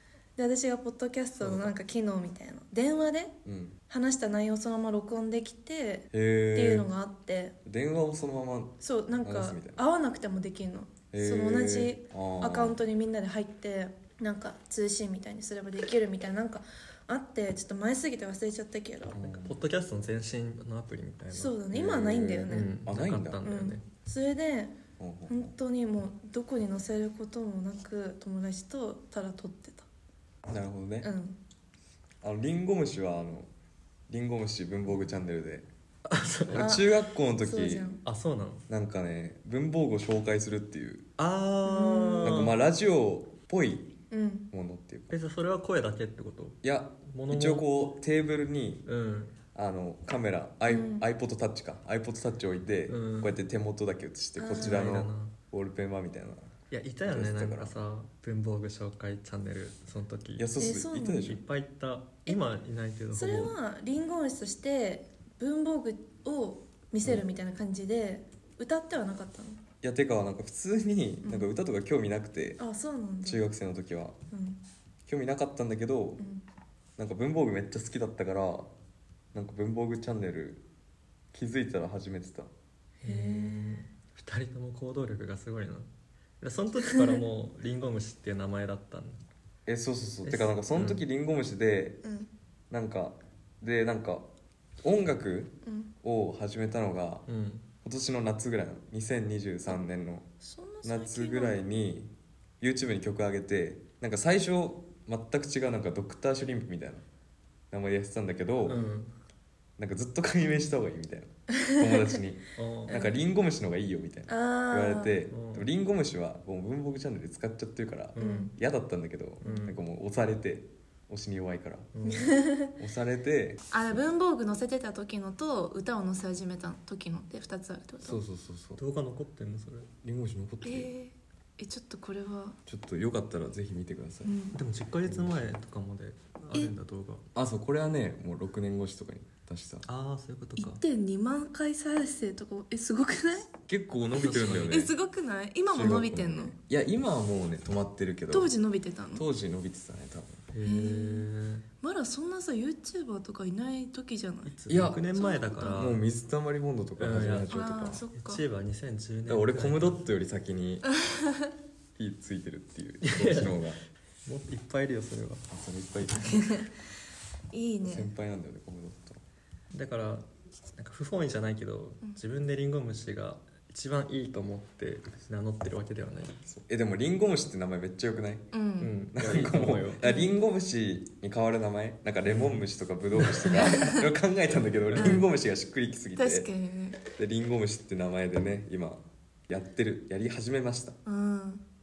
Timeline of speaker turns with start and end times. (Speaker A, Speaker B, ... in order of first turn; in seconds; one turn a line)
Speaker A: 0.4-3.4
Speaker B: 1.4-1.7
Speaker B: 3.5-3.8
Speaker A: 3.9-7.5
Speaker B: 6.1-6.9
Speaker B: 7.7-9.8
Speaker A: 8.8-19.2
Speaker B: 11.1-12.8
Speaker B: 19.1-19.6
Speaker C: 19.2-21.6
Speaker A: 21.3-22.8
Speaker B: 21.7-23.5
Speaker C: 22.5-23.8
Speaker A: 23.4-24.8
Speaker B: 25.0-25.5
Speaker A: 25.3-29.9
Speaker B: 30.5-31.1
Speaker A: 31.0-31.4
Speaker B: 32.2-33.5
Speaker B: 34.1-35.7
Speaker C: 36.1-36.8
Speaker B: 36.5-37.9
Speaker A: 36.5-38.0
Speaker C: 38.0-38.6
Speaker B: 38.7-41.1
Speaker C: 41.2-42.5
Speaker A: 41.7-42.5
Speaker B: 42.2-43.9
Speaker A: 44.1-44.5
Speaker B: 44.5-45.1
Speaker C: 45.1-47.7
Speaker B: 46.6-48.9
Speaker C: 48.9-49.4
Speaker B: 49.5-56.5
Speaker A: 50.7-51.1
Speaker C: 52.9-53.4
Speaker A: 54.4-54.9
Speaker C: 54.5-55.4
Speaker C: 56.7-60.5
Speaker B: 57.0-57.7
Speaker B: 60.4-61.4
Speaker A: 60.6-61.3
Speaker C: 61.2-63.5
Speaker A: 63.1-69.6
Speaker B: 69.8-72.6
Speaker A: 71.2-71.5
Speaker A: 72.6-73.4
Speaker B: 73.2-74.2
Speaker A: 74.3-74.6
Speaker B: 75.1-76.2
Speaker A: 76.2-76.4
Speaker B: 77.0-78.7
Speaker B: 79.3-80.6
Speaker B: 81.3-82.5
Speaker A: 83.0-83.9
Speaker C: 83.0-85.9
Speaker C: 86.4-89.2
Speaker B: 89.7-92.0
Speaker C: 90.2-91.0
Speaker A: 92.0-92.3
Speaker B: 92.7-94.3
Speaker B: 94.8-97.2
Speaker A: 95.7-95.9
Speaker C: 97.3-97.7
Speaker B: 97.8-100.3
Speaker A: 100.4-101.6
Speaker B: 100.8-107.0
Speaker B: 107.7-108.8
Speaker C: 108.6-109.1
Speaker B: 109.8-121.9
Speaker A: 111.6-112.2
Speaker C: 112.6-112.9
Speaker A: 112.9-113.2
Speaker A: 114.3-115.2
Speaker C: 115.3-115.7
Speaker C: 118.2-118.5
Speaker A: 118.2-118.5
Speaker C: 119.4-119.8
Speaker C: 122.0-122.3
Speaker A: 122.1-122.7
Speaker B: 122.8-123.6
Speaker A: 123.7-128.2
Speaker B: 128.0-128.8
Speaker C: 128.8-129.9
Speaker B: 130.0-130.9
Speaker A: 130.6-132.6
Speaker B: 132.7-134.3
Speaker A: 134.2-134.6
Speaker C: 134.5-137.2
Speaker B: 135.1-135.6
Speaker B: 137.3-139.9
Speaker C: 139.9-140.8
Speaker A: 140.6-143.5
Speaker B: 143.5-144.9
Speaker A: 144.2-146.6
Speaker C: 144.2-144.7
Speaker B: 145.7-148.5
Speaker A: 148.3-149.2
Speaker B: 149.1-150.5
Speaker C: 150.5-151.7
Speaker A: 150.6-151.3
Speaker A: 151.8-154.5
Speaker C: 154.5-156.0
Speaker B: 154.7-155.1
Speaker A: 155.1-155.9
Speaker B: 155.7-158.0
Speaker C: 157.0-157.6
Speaker A: 157.5-158.4
Speaker C: 158.2-160.0
Speaker B: 159.3-160.9
Speaker A: 160.9-161.5
Speaker B: 162.0-163.8
Speaker C: 163.0-163.6
Speaker C: 164.2-165.5
Speaker B: 165.5-166.6
Speaker A: 166.2-166.7
Speaker A: 167.5-168.1
Speaker B: 167.8-169.2
Speaker C: 169.7-176.4
Speaker B: 176.5-178.5
Speaker A: 178.5-178.9
Speaker C: 178.8-180.0
Speaker B: 179.1-186.5
Speaker A: 180.0-180.3
Speaker C: 182.3-182.7
Speaker C: 183.2-183.5
Speaker A: 183.5-184.0
Speaker C: 184.9-185.2
Speaker A: 184.9-185.3
Speaker A: 186.2-187.0
Speaker B: 187.1-191.0
Speaker A: 191.1-191.7